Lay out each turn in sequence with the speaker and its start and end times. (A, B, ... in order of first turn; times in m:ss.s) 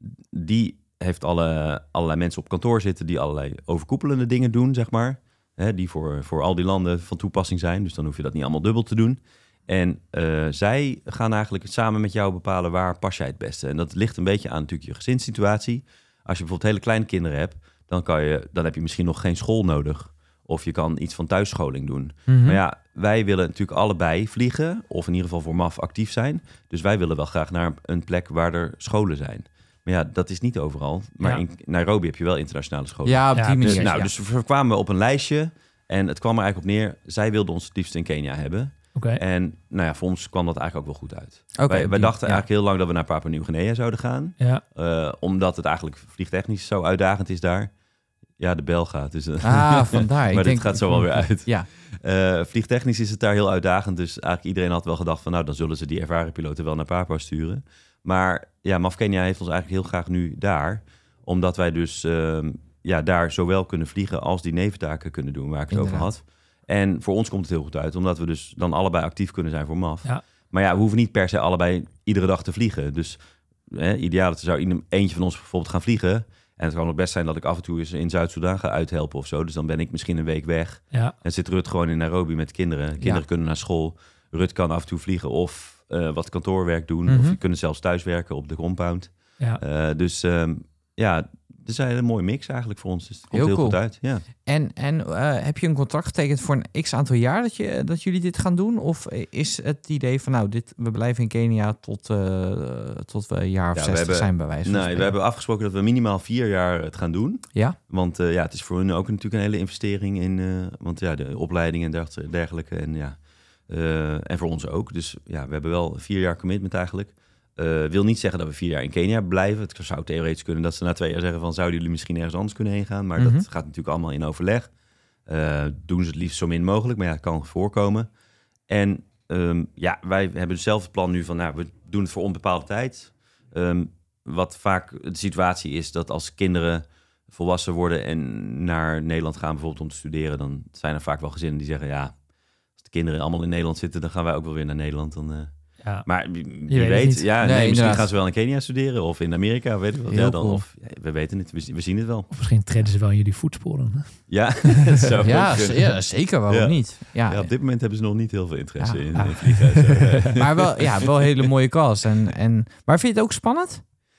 0:00.3-0:47.7 A
0:22.3-0:22.6 B
0:33.0-0:34.1 B
0:33.3-0:33.9 C
0:39.0-0:39.2 C
0:41.6-0:42.4 B
0:48.4-1:34.2 A
0:49.4-0:51.7 B
1:05.7-1:06.1 B
1:27.1-1:27.4 B
1:33.3-1:33.8 B
1:34.4-1:45.1 B
1:43.7-2:04.7 A
2:03.2-2:03.4 B
2:05.3-2:08.1 A
2:08.7-2:22.1 A
2:22.8-2:25.5 A
2:26.0-2:32.3 A
2:26.7-2:27.3 C
2:27.4-2:28.1 B
2:30.1-2:30.6 B
2:32.3-2:35.0 C
2:34.3-2:35.9 A
2:35.2-2:37.5 B
2:36.5-2:41.1 A
2:38.8-2:39.7 B
2:40.3-2:43.8 B